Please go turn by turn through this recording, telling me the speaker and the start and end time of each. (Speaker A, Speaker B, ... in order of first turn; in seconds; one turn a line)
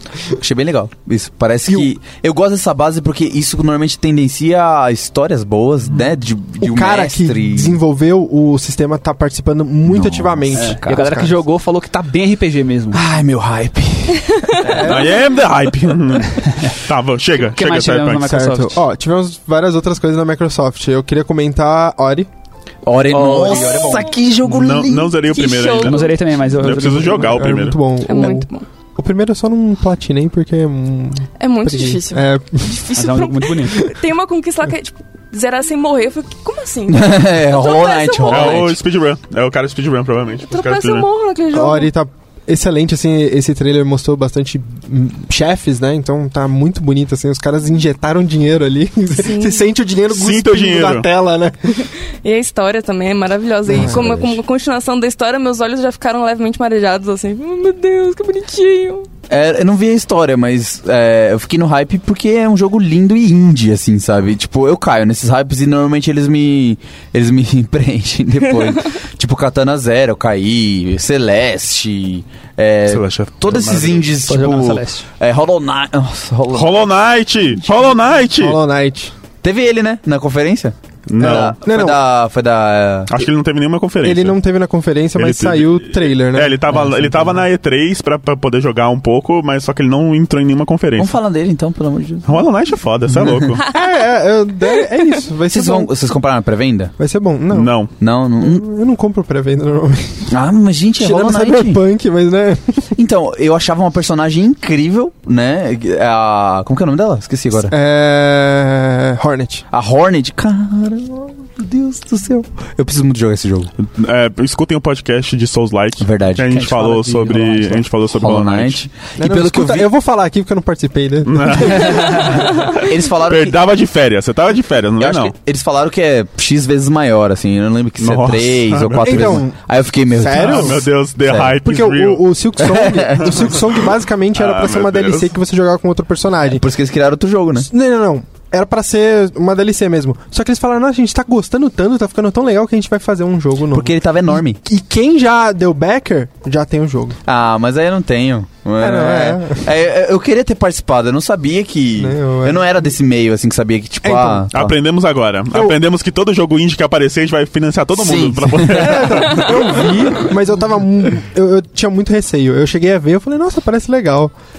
Speaker A: 0.4-7.8
Speaker B: 6.6-11.3
Speaker A: 9.8-11.3
Speaker C: 10.5-13.0
Speaker A: 12.9-15.1
Speaker D: 14.3-14.6
Speaker B: 14.7-15.2
Speaker E: 14.8-18.4
Speaker C: 16.3-16.8
Speaker C: 17.4-18.8
Speaker B: 18.2-22.3
Speaker A: 22.8-25.2
Speaker C: 23.1-24.1
Speaker D: 23.7-24.0
Speaker E: 24.5-27.8
Speaker D: 25.3-26.2
Speaker C: 25.8-27.5
Speaker B: 26.8-32.8
Speaker D: 28.1-28.7
Speaker D: 31.4-38.7
Speaker C: 33.0-33.8
Speaker A: 36.9-38.8
Speaker E: 38.3-41.1
Speaker D: 40.5-41.9
Speaker B: 41.5-51.6
Speaker D: 49.2-49.6
Speaker E: 50.1-51.1
Speaker D: 51.8-59.1
Speaker B: 53.7-54.1
Speaker A: 53.7-54.4
Speaker A: 59.3-76.8
Speaker E: 72.9-74.1
Speaker C: 74.3-75.1
Speaker E: 76.5-78.6
Speaker B: 78.4-79.1
Speaker A: 79.4-83.3
Speaker E: 81.1-81.6
Speaker B: 81.2-82.0
Speaker E: 83.1-84.4
Speaker B: 84.0-86.8
Speaker E: 85.2-91.2
Speaker A: 86.7-87.2
Speaker A: 91.0-92.5
Speaker E: 92.2-93.7
Speaker A: 93.2-93.5
Speaker B: 93.7-95.9
Speaker A: 95.5-96.9
Speaker B: 97.0-97.7
Speaker E: 97.5-97.9
Speaker A: 98.0-98.6
Speaker B: 98.4-100.3
Speaker A: 100.3-101.8
Speaker B: 101.0-103.0
Speaker A: 103.0-107.8
Speaker B: 107.7-109.7
Speaker A: 109.7-113.7
Speaker E: 113.8-118.8
Speaker A: 116.0-116.7
Speaker C: 116.5-117.9
Speaker A: 118.1-119.9
Speaker B: 119.2-122.4
Speaker E: 121.2-125.3
Speaker A: 122.8-123.6
Speaker A: 125.0-131.6
Speaker E: 128.0-129.4
Speaker B: 129.0-130.8
Speaker E: 130.3-132.3
Speaker B: 131.7-136.6
Speaker A: 132.6-133.5
Speaker E: 133.2-133.7
Speaker E: 134.3-135.3
Speaker A: 136.5-137.7
Speaker B: 137.7-147.2
Speaker A: 143.7-144.6
Speaker A: 147.2-154.7
Speaker B: 148.8-149.7
Speaker B: 152.0-152.9
Speaker B: 154.0-154.5
Speaker E: 154.5-160.0
Speaker A: 157.9-159.3
Speaker B: 158.7-164.3